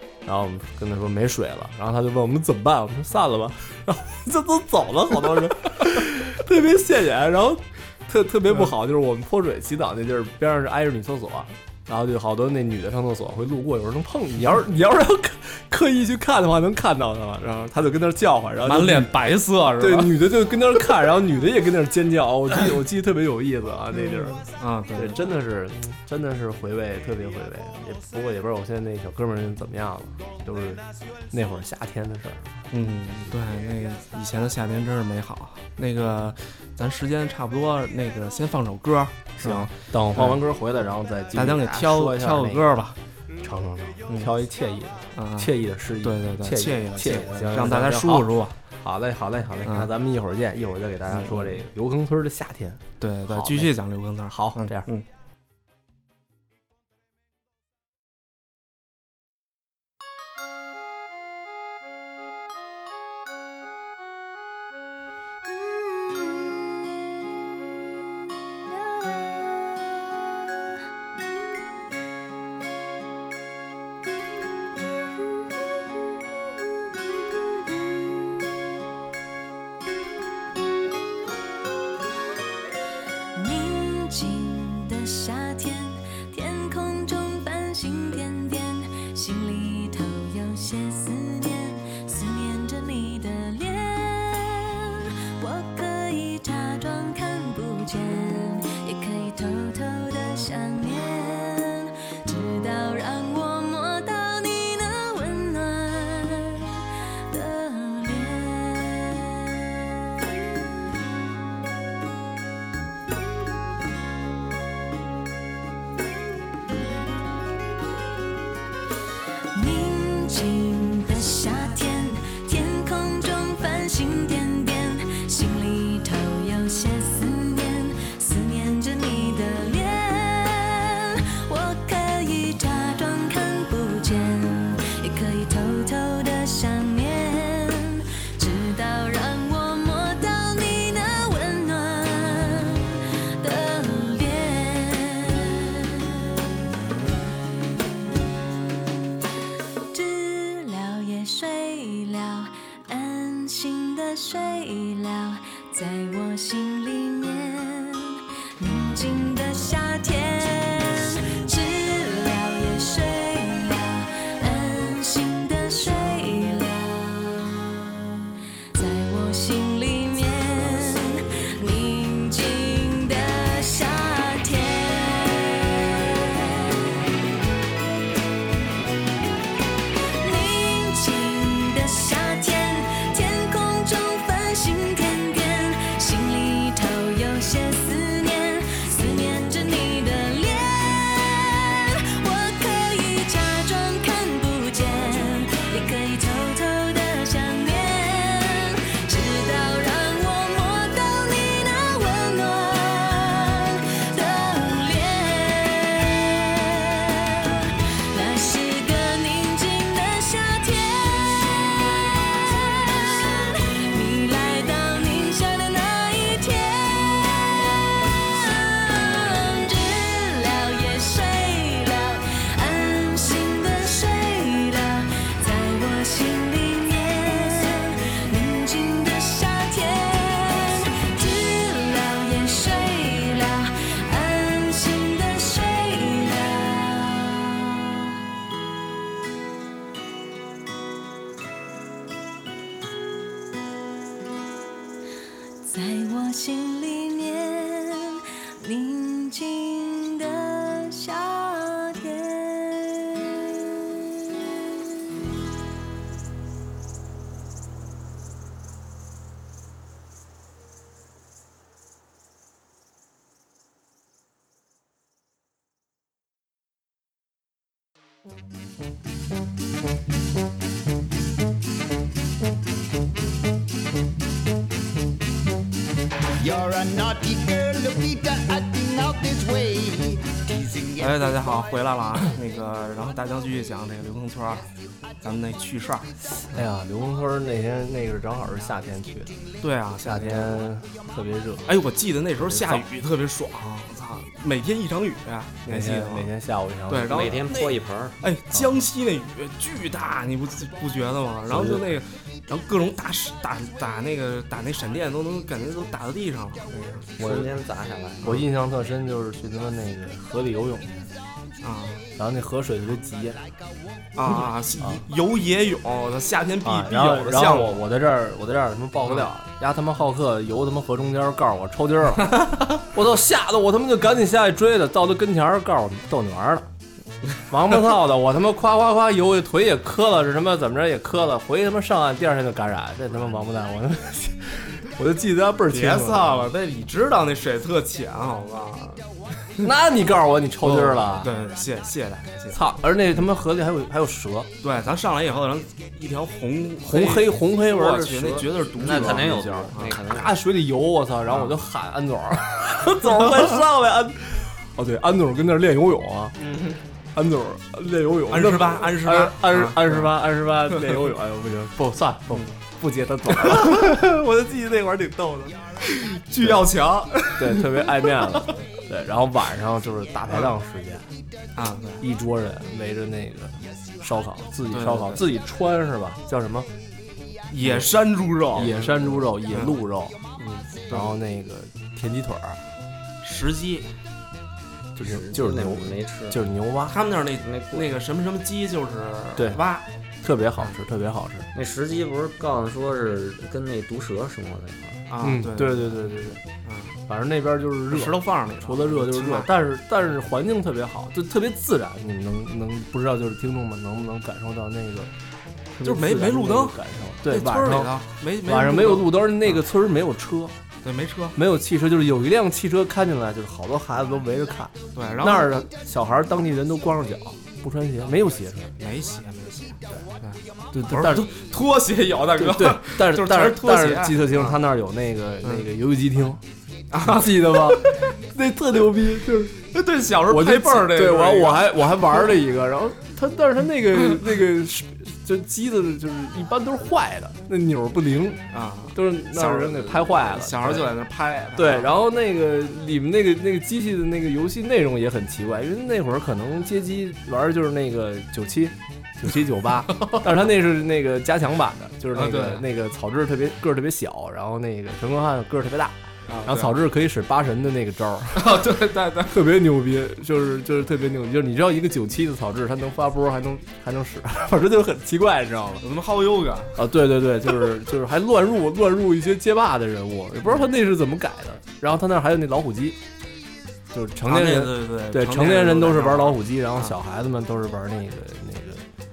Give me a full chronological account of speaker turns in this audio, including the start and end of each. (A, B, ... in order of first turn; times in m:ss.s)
0:00.2-0:19.2 A
0:18.6-0:20.2 B
0:19.8-0:24.4 A
0:23.9-0:25.3 B
0:24.9-0:32.7 A
0:32.7-0:40.4 B
0:39.4-0:42.7 A
0:41.3-0:43.0 B
0:43.4-0:53.7 A
0:45.2-0:48.6 B
0:49.6-0:49.9 B
0:51.1-0:51.6 B
0:53.0-0:55.0 B
0:54.3-0:54.9 A
1:17.7-1:18.4 C
1:23.3-1:50.3 C
1:59.5-2:26.4 C
2:29.9-2:47.7 C
2:48.7-2:57.0 C
3:00.1-3:31.6 C
3:32.2-3:37.5 C
3:38.0-3:58.2 C
4:05.6-4:13.5 C
4:36.4-4:41.3 D
4:41.0-4:44.7 B
4:45.2-4:46.6 B
4:46.3-4:49.4 A
4:49.6-4:50.6 B
4:50.0-4:51.7 A
4:51.7-4:56.3 B
4:52.4-4:52.8 A
4:55.6-4:57.7 A
4:56.9-4:57.6 B
4:57.1-4:58.2 E
4:58.2-5:07.1 B
5:01.5-5:01.9 A
5:07.2-5:07.5 A
5:07.2-5:08.4 E
5:08.2-5:11.1 A
5:11.6-5:12.0 B
5:12.2-5:13.4 A
5:14.1-5:17.8 B
5:16.6-5:26.7 A
5:19.0-5:19.3 B
5:27.4-5:36.5 A
5:35.7-5:39.7 B
5:39.6-5:41.3 A
5:40.6-5:42.7 B
5:42.5-5:44.5 A
5:44.6-5:50.0 B
5:46.8-5:56.4 A
5:48.7-5:50.3 E
5:51.3-5:51.6 B
5:56.4-5:56.8 B
5:57.1-6:05.5 A
5:58.3-6:00.1 B
6:03.3-6:08.6 B
6:07.3-6:11.1 A
6:11.6-6:12.0 B
6:12.0-6:16.7 A
6:14.7-6:15.3 B
6:17.5-6:19.8 B
6:17.6-6:18.0 A
6:18.5-6:20.2 A
6:20.4-6:21.2 B
6:20.9-6:22.6 A
6:23.2-6:23.9 B
6:25.0-6:27.0 A
6:25.0-6:26.4 E
6:26.9-6:29.8 B
6:27.4-6:27.9 E
6:29.4-6:29.6 A
6:30.2-6:31.5 A
6:31.5-6:35.0 E
6:35.1-6:37.0 B
6:35.2-6:36.4 A
6:37.1-6:45.1 A
6:37.9-6:39.5 B
6:45.7-6:47.9 A
6:45.8-6:49.6 B
6:48.4-6:50.6 A
6:50.8-6:51.4 B
6:51.3-6:58.8 A
6:54.9-6:55.5 B
6:58.8-7:04.6 B
7:00.7-7:01.3 A
7:02.4-7:06.4 A
7:05.4-7:05.7 B
7:06.9-7:08.1 B
7:07.0-7:09.7 A
7:09.7-7:12.4 B
7:10.2-7:20.9 A
7:18.5-7:22.0 B
7:21.5-7:38.6 A
7:29.9-7:30.2 B
7:32.1-7:32.7 B
7:36.3-7:36.8 B
7:38.3-7:39.4 B
7:39.2-7:45.8 A
7:45.8-7:46.8 B
7:46.8-7:53.0 A
7:50.4-7:50.7 B
7:53.9-7:58.8 A
7:54.2-7:56.9 B